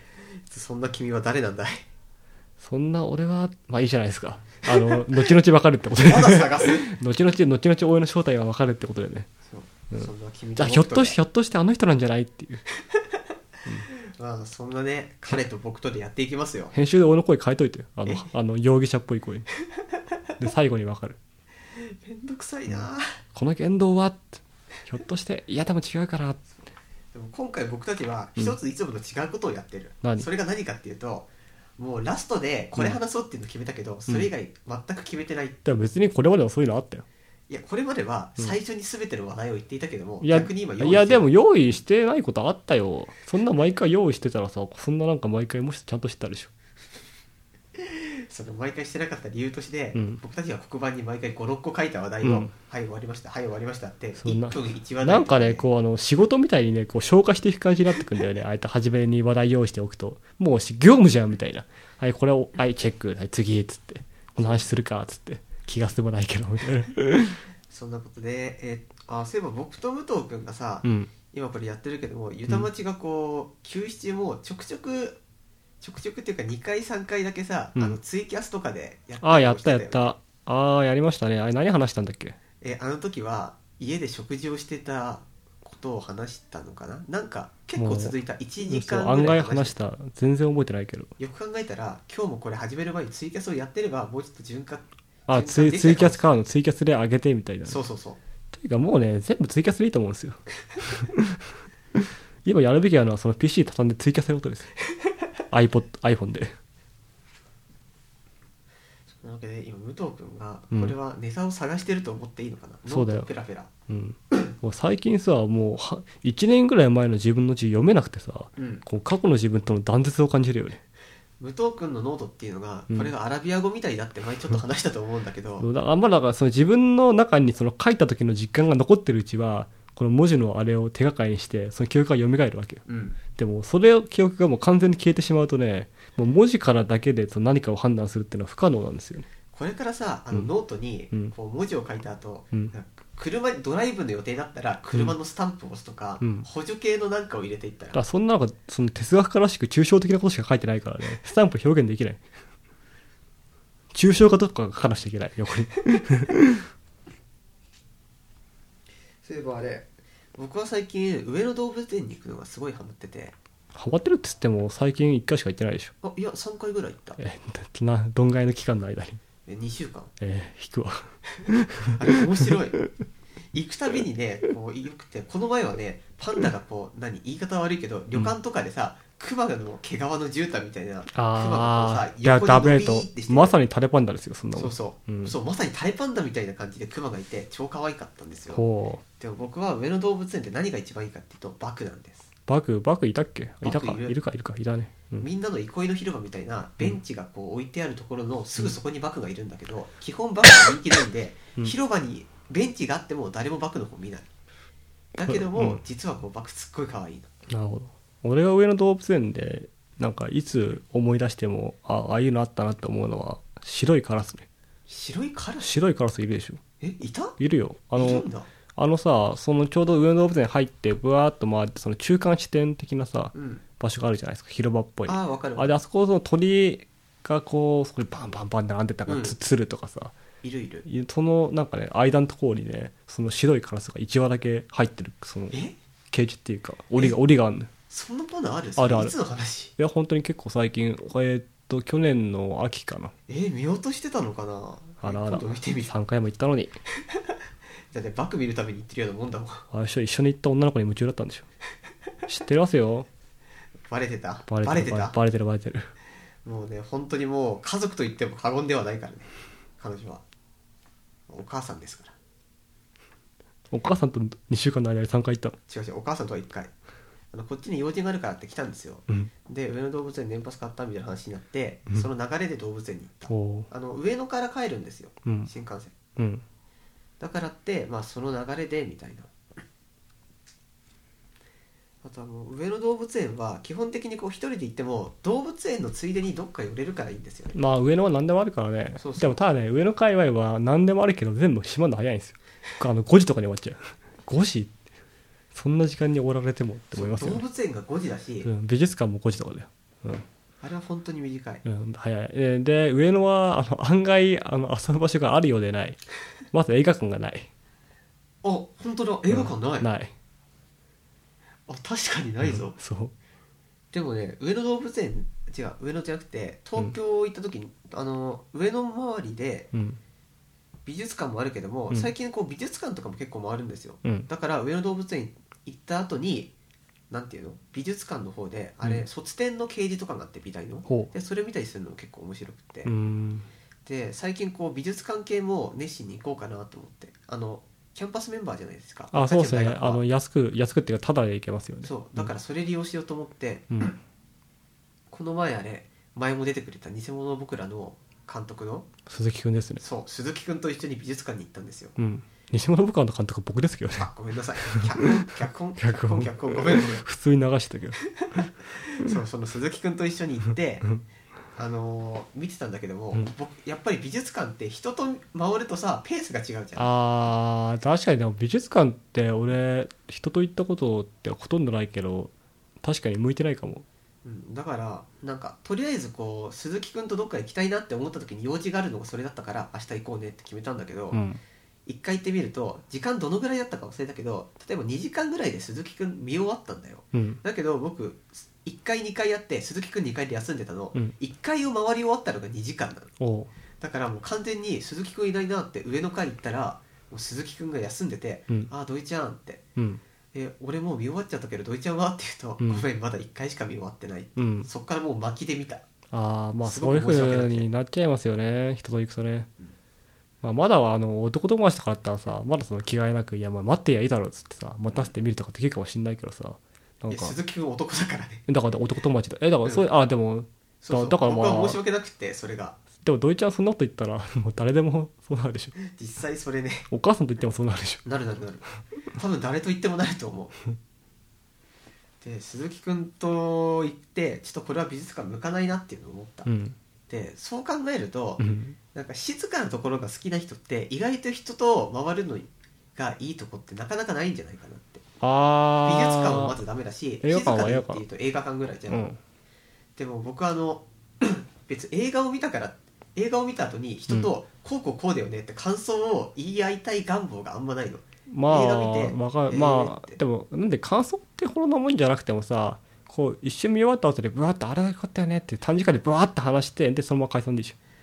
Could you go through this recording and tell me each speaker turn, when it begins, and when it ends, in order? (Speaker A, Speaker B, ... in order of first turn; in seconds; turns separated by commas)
Speaker A: 0.5-1.9, Speaker B: 2.6-9.3, Speaker A: 4.7-5.3, Speaker A: 6.0-6.9, Speaker A: 9.5-11.2, Speaker B: 9.9-12.6, Speaker A: 13.8-16.7, Speaker B: 16.7-19.5, Speaker B: 20.4-21.2, Speaker A: 21.8-23.2, Speaker B: 22.7-26.4, Speaker A: 27.1-35.6, Speaker B: 30.0-30.3, Speaker B: 35.6-37.0, Speaker A: 37.5-41.2, Speaker B: 40.2-46.5, Speaker A: 47.8-55.7, Speaker B: 49.9-50.2, Speaker B: 52.2-52.5, Speaker B: 54.2-67.4, Speaker A: 64.4-64.7, Speaker A: 67.7-75.2, Speaker B: 70.8-71.1, Speaker A: 75.8-80.1, Speaker B: 79.2-82.3, Speaker A: 82.6-89.8, Speaker B: 87.8-91.1, Speaker A: 91.2-96.2, Speaker B: 95.3-97.8, Speaker A: 97.7-98.2, Speaker B: 98.5-104.7, Speaker B: 105.5-106.5, Speaker A: 109.2-113.7, Speaker B: 110.7-111.0, Speaker B: 112.9-113.3, Speaker B: 113.9-120.8, Speaker A: 118.6-118.8, Speaker A: 121.4-125.7, Speaker B: 125.6-132.8, Speaker A: 132.9-133.2, Speaker B: 133.3-139.3, Speaker A: 139.5-148.0, Speaker B: 146.2-146.5, Speaker B: 147.9-152.2, Speaker B: 153.9-156.7, Speaker A: 159.2-163.3, Speaker B: 163.7-165.9, Speaker A: 166.0-167.2, Speaker B: 167.2-169.2, Speaker A: 169.5-170.1, Speaker B: 170.2-172.5, Speaker A: 172.0-172.8, Speaker A: 173.5-183.5, Speaker B: 181.1-185.3, Speaker A: 184.6-188.6, Speaker B: 188.5-189.0, Speaker A: 189.2-192.3, Speaker B: 192.5-195.2, Speaker A: 193.6-194.2, Speaker A: 195.2-204.3, Speaker A: 205.2-207.3, Speaker B: 205.2-205.8, Speaker B: 207.5-214.5, Speaker A: 214.9-215.7, Speaker B: 215.6-216.6, Speaker A: 216.8-217.4, Speaker B: 217.4-218.2, Speaker A: 217.9-218.5, Speaker B: 218.8-230.2, Speaker A: 223.3-223.6, Speaker A: 225.1-225.7, Speaker A: 229.1-229.3, Speaker A: 230.4-230.8, Speaker B: 230.8-235.5, Speaker B: 236.1-237.7, Speaker A: 237.9-239.7, Speaker B: 238.8-239.2, Speaker B: 239.8-243.1, Speaker A: 243.3-245.9, Speaker B: 245.0-246.8, Speaker A: 247.9-249.6, Speaker B: 249.7-251.5, Speaker B: 252.3-253.1, Speaker A: 253.9-255.2, Speaker B: 254.5-255.9, Speaker A: 256.4-260.2, Speaker A: 261.3-262.1, Speaker B: 263.7-265.6, Speaker A: 265.7-266.7, Speaker A: 267.3-275.9, Speaker B: 273.3-273.7, Speaker B: 275.2-275.5, Speaker B: 276.2-276.4, Speaker A: 277.2-279.3, Speaker A: 282.0-287.6, Speaker B: 287.5-294.8, Speaker A: 289.0-289.4, Speaker B: 295.5-297.4, Speaker A: 296.9-298.5, Speaker B: 298.4-300.2, Speaker A: 300.6-301.6, Speaker B: 301.6-306.0, Speaker B: 306.5-307.5, Speaker A: 308.4-309.9, Speaker B: 309.3-310.1, Speaker A: 311.7-312.8, Speaker B: 312.4-313.1, Speaker A: 313.9-319.7, Speaker B: 319.7-320.0, Speaker A: 320.9-326.5, Speaker A: 327.1-332.9, Speaker B: 330.9-331.1, Speaker B: 332.9-333.5, Speaker A: 333.9-340.0, Speaker B: 339.1-342.3, Speaker A: 341.8-343.7, Speaker A: 345.1-348.9, Speaker B: 349.1-349.8, Speaker A: 349.8-351.9, Speaker B: 352.0-354.1, Speaker A: 354.0-357.0, Speaker B: 355.8-358.0, Speaker A: 358.9-360.9, Speaker A: 361.6-366.9, Speaker B: 366.8-373.9, Speaker A: 374.2-381.2, Speaker B: 381.1-381.4, Speaker A: 381.9-393.1, Speaker B: 387.1-387.4, Speaker B: 393.2-393.5, Speaker A: 393.8-399.6, Speaker B: 399.8-400.0, Speaker A: 400.3-405.8, Speaker B: 404.4-404.7, Speaker B: 406.1-409.5, Speaker A: 406.6-407.7, Speaker B: 410.4-417.4, Speaker A: 417.1-418.4, Speaker B: 418.5-421.8, Speaker A: 420.8-422.8, Speaker B: 423.0-425.8, Speaker A: 425.8-426.9, Speaker B: 426.9-428.0, Speaker A: 428.0-428.6, Speaker A: 429.1-430.6, Speaker A: 432.2-436.5, Speaker B: 436.4-436.8, Speaker A: 437.1-445.0, Speaker B: 438.4-438.8, Speaker B: 445.2-446.6, Speaker A: 445.8-449.0, Speaker B: 447.2-448.0, Speaker B: 448.9-449.2, Speaker A: 450.0-460.2, Speaker B: 458.3-467.8